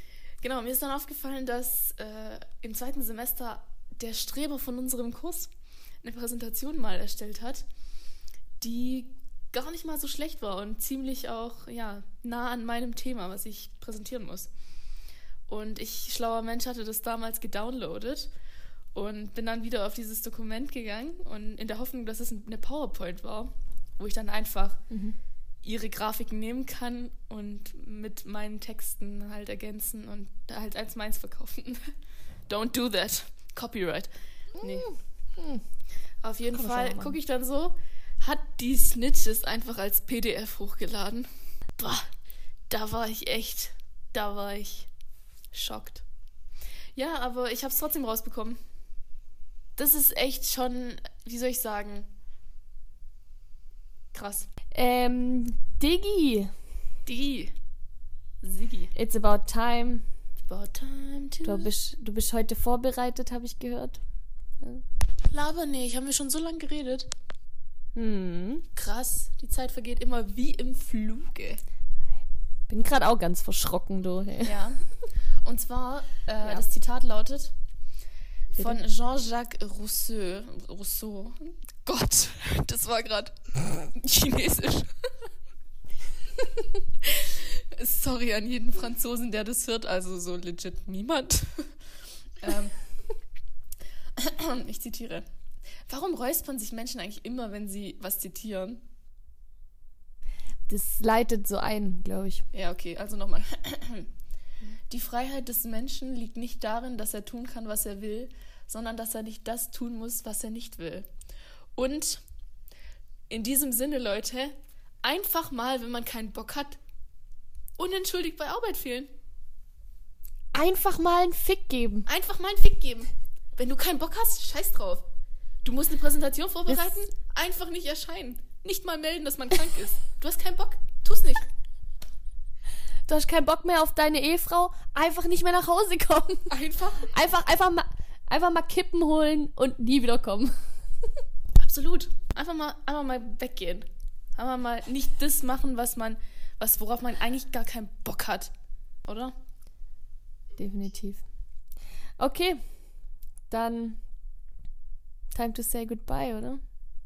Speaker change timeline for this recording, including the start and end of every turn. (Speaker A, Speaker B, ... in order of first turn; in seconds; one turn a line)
Speaker A: 0.4-5.5
Speaker A: 6.0-7.7
Speaker A: 8.6-14.5
Speaker A: 15.5-18.3
Speaker A: 18.9-24.8
Speaker B: 24.9-25.1
Speaker A: 25.6-31.9
Speaker A: 32.5-34.9
Speaker B: 34.6-35.6
Speaker A: 36.2-42.1
Speaker B: 36.5-37.1
Speaker A: 42.7-44.9
Speaker A: 45.5-46.0
Speaker A: 46.9-48.6
Speaker A: 49.8-52.1
Speaker A: 54.1-54.5
Speaker B: 54.7-56.5
Speaker A: 57.0-57.5
Speaker A: 58.4-58.9
Speaker B: 58.9-60.0
Speaker A: 60.4-61.7
Speaker B: 61.4-64.0
Speaker A: 65.3-67.1
Speaker B: 68.0-68.7
Speaker A: 68.8-71.6
Speaker B: 72.7-74.6
Speaker A: 74.4-74.8
Speaker A: 75.4-77.5
Speaker A: 78.5-85.0
Speaker A: 86.4-91.8
Speaker A: 92.4-92.8
Speaker A: 94.1-95.3
Speaker A: 95.9-98.8
Speaker B: 100.7-102.5
Speaker A: 102.5-104.1
Speaker A: 104.9-111.1
Speaker A: 111.7-112.2
Speaker A: 113.3-116.8
Speaker A: 117.8-119.1
Speaker B: 120.5-122.1
Speaker A: 122.1-125.0
Speaker A: 125.6-131.4
Speaker B: 126.7-127.0
Speaker B: 133.1-136.5
Speaker A: 136.5-137.1
Speaker B: 137.0-140.6
Speaker A: 141.6-148.5
Speaker A: 149.1-149.3
Speaker B: 150.6-151.2
Speaker B: 152.2-152.7
Speaker B: 153.5-154.0
Speaker B: 155.3-156.6